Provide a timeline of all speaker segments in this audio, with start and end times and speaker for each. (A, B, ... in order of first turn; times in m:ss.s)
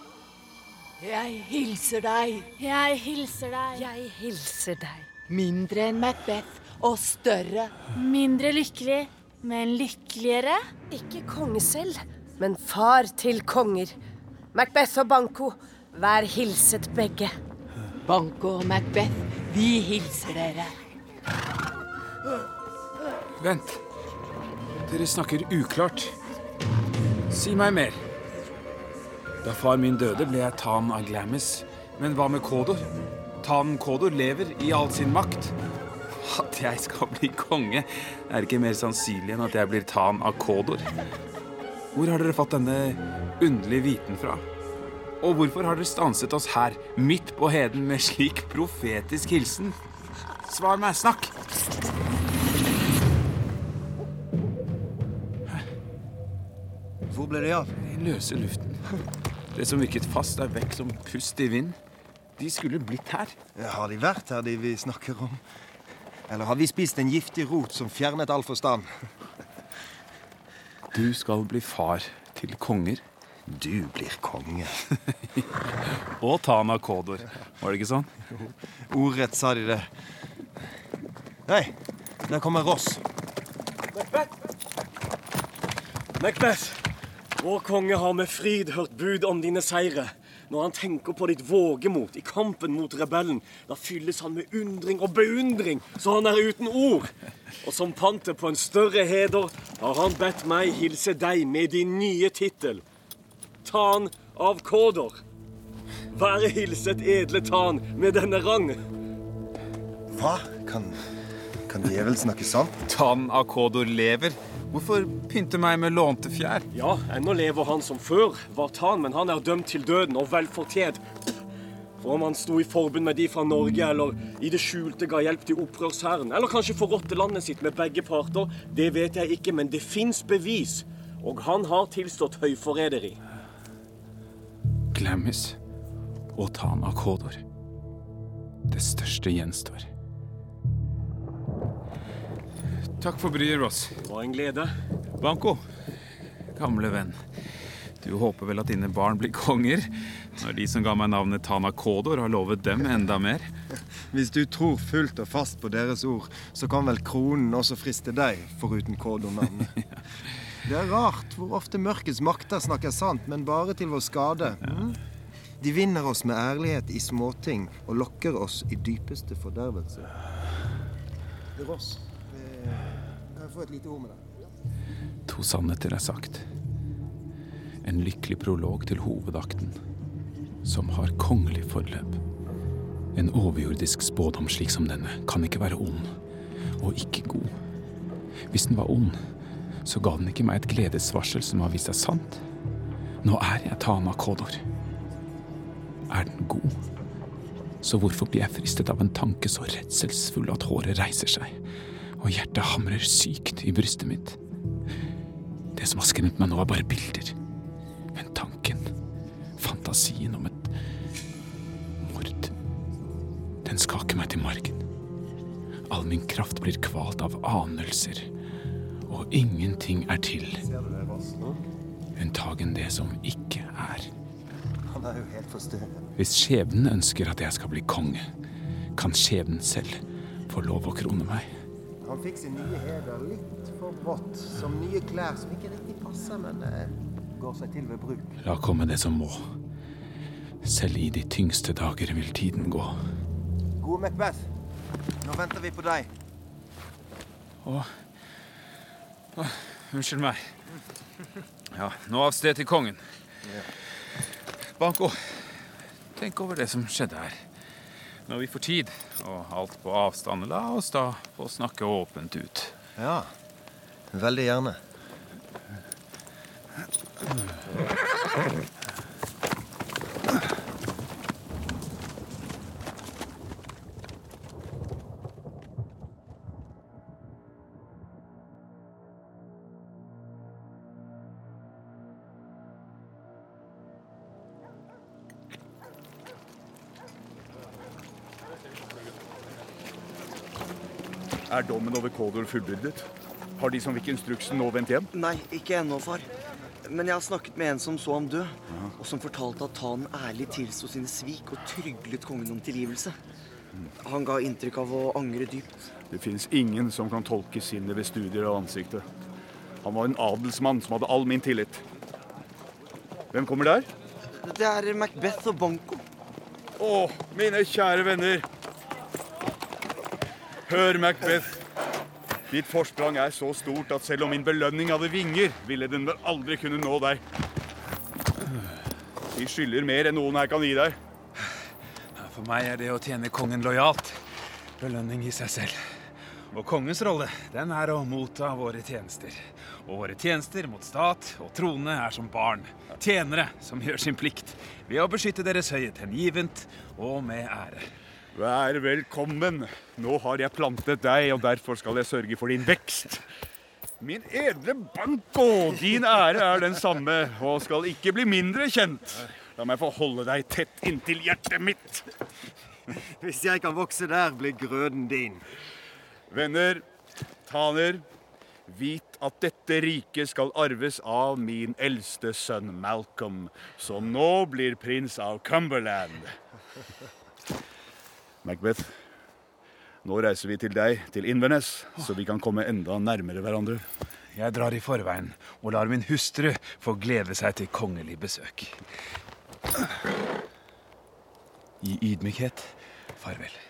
0:01.0-0:02.5 A
0:02.6-0:03.8 B
0:03.7-0:05.1 C
0:05.3-0:07.8 A
0:08.0-0:10.6 B
0:10.9-0:14.0 C
0:14.5-0:17.3 C
0:18.0-0:20.7 A
0:23.4-0:23.8 D
0:24.9-0:26.2 D
0:27.3-0:28.0 D
0:29.4-0:32.9 D
0:33.4-0:35.6 D
0:36.2-0:40.9 D
0:42.0-0:44.4 D
0:45.2-0:49.8 D
0:50.5-0:51.3 D
0:57.1-0:57.7 E
0:57.8-0:58.8 D
0:59.5-1:01.8 D
1:02.4-1:03.4 D
1:03.6-1:05.4 E
1:06.3-1:08.9 E
1:10.9-1:13.0 D
1:13.5-1:14.8 E
1:16.2-1:18.1 D
1:18.4-1:19.9 E
1:21.5-1:21.7 E
1:22.3-1:23.0 E
1:23.9-1:24.3 F
1:26.2-1:26.8 F
1:27.4-1:42.8 F
1:43.6-1:45.2 F
1:46.1-1:48.8 F
1:50.1-1:51.0 E
1:51.7-1:52.7 E
1:52.9-1:56.7 D
1:56.7-2:01.0 F
2:02.0-2:13.2 F
2:14.9-2:15.6 D
2:16.3-2:17.4 D
2:18.7-2:19.9 D
2:23.0-2:23.9 D
2:24.0-2:24.7 F
2:25.2-2:25.6 D
2:26.6-2:27.2 D
2:28.0-2:33.5 D
2:34.1-2:39.8 E
2:40.6-2:45.0 E
2:45.6-2:50.1 E
2:51.6-2:54.2 E
2:55.3-2:56.5 D
2:57.8-2:59.8 D
3:00.6-3:02.2 D
3:03.2-3:06.1 D
3:06.8-3:07.5 D
3:08.5-3:09.2 D
3:09.8-3:12.4 D
3:13.2-3:14.6 D
3:16.1-3:16.8 D
3:17.8-3:21.6 D
3:22.2-3:24.4 D
3:25.8-3:27.4 D
3:28.1-3:28.9 D
3:29.6-3:30.7 D
3:32.0-3:32.5 D
3:33.6-3:34.8 D
3:35.9-3:38.3 D
3:39.1-3:40.6 D
3:40.6-3:41.6 E
3:42.2-3:44.1 D
3:44.9-3:46.1 E
3:46.2-3:48.3 D
3:49.0-3:51.5 D
3:52.0-3:58.4 E
3:58.4-3:59.4 D
4:00.6-4:03.0 D
4:03.8-4:04.4 E
4:05.2-4:06.1 E
4:07.6-4:07.9 D
4:09.4-4:10.5 D
4:11.7-4:13.0 D
4:14.8-4:15.6 D
4:16.2-4:17.4 D
4:18.3-4:22.8 D
4:23.0-4:23.3 E
4:24.1-4:24.8 E
4:51.5-4:53.1 G
4:53.6-4:55.1 G
4:55.1-4:56.3 H
4:56.9-5:03.1 H
4:58.7-4:58.9 G
5:04.0-5:05.8 H
5:06.1-5:09.0 G
5:09.8-5:11.8 G
5:13.3-5:13.9 G
5:14.4-5:16.0 H
5:16.8-5:18.5 G
5:20.7-5:21.6 G
5:22.5-5:27.2 G
5:29.3-5:31.0 G
5:32.2-5:34.2 D
5:34.8-5:35.8 D
5:36.5-5:47.9 D
5:48.3-5:53.2 G
5:54.0-6:02.1 G
6:03.2-6:05.4 E
6:06.3-6:06.8 G
6:07.5-6:08.0 G
6:08.7-6:16.3 G
6:18.4-6:19.0 G
6:20.0-6:23.8 G
6:24.4-6:28.8 D
6:31.8-6:33.6 D